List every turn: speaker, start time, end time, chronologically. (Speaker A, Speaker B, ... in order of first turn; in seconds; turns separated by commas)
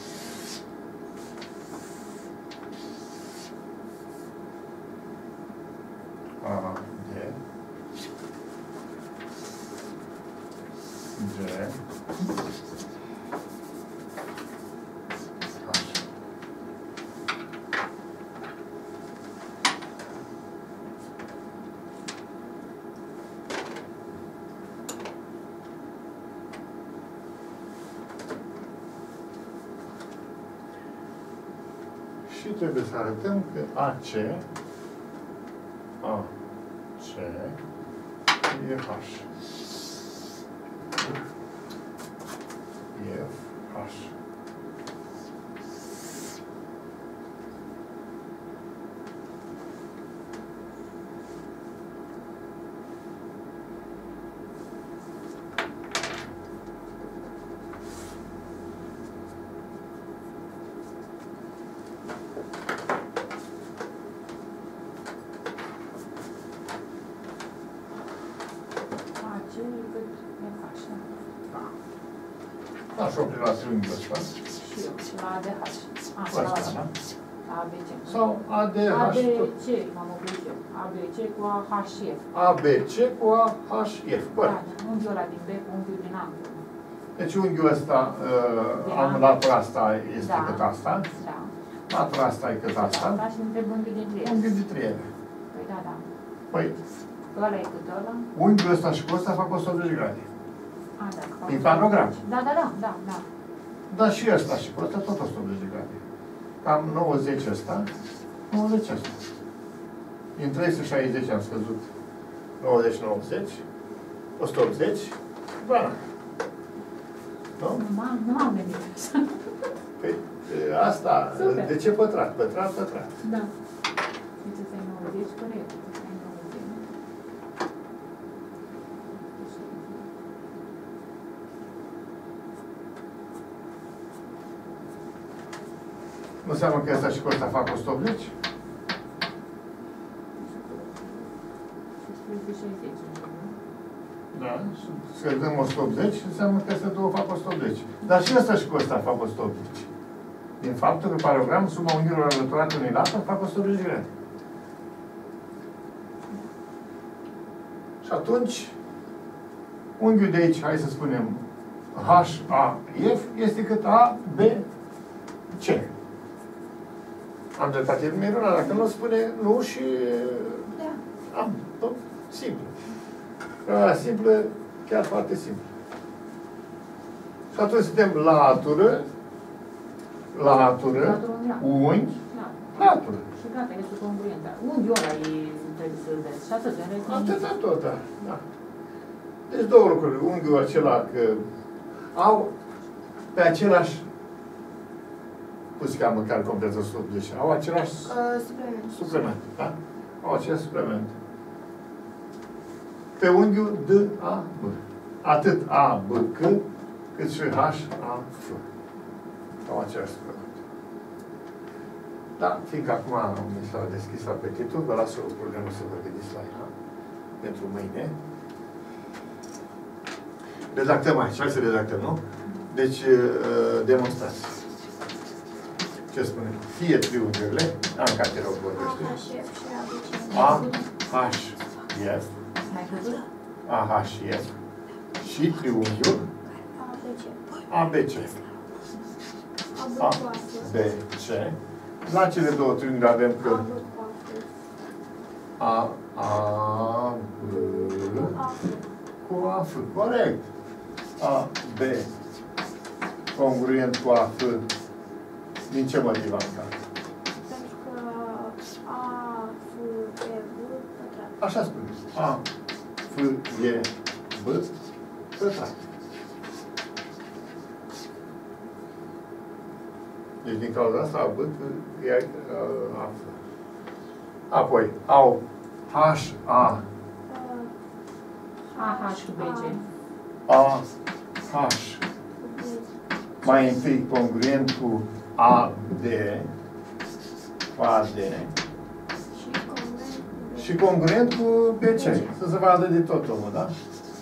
Speaker A: 6.4-7.4, Speaker A: 11.2-11.8, Speaker A: 15.6-16.0, Speaker A: 32.3-34.4, Speaker A: 36.0-36.3, Speaker A: 37.0-37.6, Speaker A: 38.5-39.2, Speaker A: 42.9-44.1, Speaker B: 69.2-71.1, Speaker A: 72.9-74.3, Speaker B: 74.6-76.7, Speaker A: 76.3-76.9, Speaker B: 77.5-78.3, Speaker A: 78.1-79.5, Speaker B: 78.9-82.2, Speaker A: 82.3-84.6, Speaker B: 84.4-86.6, Speaker A: 87.2-91.1, Speaker B: 88.8-89.3, Speaker B: 90.2-91.5, Speaker A: 91.9-93.2, Speaker B: 92.7-94.4, Speaker A: 94.2-95.1, Speaker B: 95.5-96.0, Speaker A: 96.5-96.8, Speaker B: 97.3-98.2, Speaker A: 98.3-100.2, Speaker B: 101.0-103.2, Speaker A: 101.5-102.1, Speaker A: 103.9-106.0, Speaker A: 106.6-107.9, Speaker A: 108.5-109.2, Speaker A: 110.3-111.8, Speaker A: 112.6-113.6, Speaker A: 114.4-116.0, Speaker B: 117.8-119.4, Speaker A: 120.0-123.1, Speaker B: 121.4-121.7, Speaker B: 123.2-123.5, Speaker B: 124.4-126.8, Speaker B: 129.3-130.1, Speaker A: 136.4-138.3, Speaker B: 140.4-141.3, Speaker B: 142.0-143.5, Speaker A: 144.3-149.9, Speaker A: 150.6-154.1, Speaker A: 158.0-158.7, Speaker A: 160.0-161.4, Speaker A: 161.9-164.6, Speaker A: 165.6-165.9, Speaker A: 167.6-170.7, Speaker A: 171.3-172.7, Speaker A: 173.7-175.6, Speaker A: 177.5-179.1, Speaker A: 180.3-182.2, Speaker B: 180.9-181.6, Speaker B: 182.3-187.4, Speaker A: 182.8-183.2, Speaker A: 187.0-188.4, Speaker A: 189.5-191.4, Speaker A: 192.1-192.5, Speaker A: 193.3-194.0, Speaker A: 195.8-198.2, Speaker C: 198.1-198.9, Speaker A: 198.9-201.1, Speaker A: 203.2-206.6, Speaker A: 207.1-208.6, Speaker A: 209.7-210.6, Speaker A: 212.4-216.7, Speaker A: 217.4-218.1, Speaker A: 220.7-224.6, Speaker A: 226.1-229.2, Speaker C: 228.8-230.7, Speaker A: 230.3-232.3, Speaker B: 230.3-230.8, Speaker B: 232.7-233.2, Speaker C: 232.7-233.2, Speaker A: 233.7-234.5, Speaker A: 235.2-236.2, Speaker C: 236.7-237.7, Speaker A: 237.7-238.3, Speaker C: 239.7-240.7, Speaker A: 240.0-243.7, Speaker C: 243.4-244.5, Speaker A: 245.6-248.3, Speaker C: 247.4-248.8, Speaker A: 249.2-250.5, Speaker A: 251.2-252.1, Speaker A: 253.3-254.7, Speaker A: 255.7-256.7, Speaker C: 257.4-261.4, Speaker A: 261.4-262.4, Speaker A: 263.1-264.7, Speaker A: 265.3-265.8, Speaker A: 270.4-273.4, Speaker A: 274.5-276.8, Speaker C: 277.3-277.7, Speaker C: 278.7-279.8, Speaker B: 278.7-279.8, Speaker A: 280.5-280.9, Speaker A: 281.5-282.0, Speaker C: 282.4-282.9, Speaker A: 283.4-286.5, Speaker A: 287.8-288.5, Speaker C: 289.3-290.9, Speaker A: 290.6-293.7, Speaker C: 291.9-292.3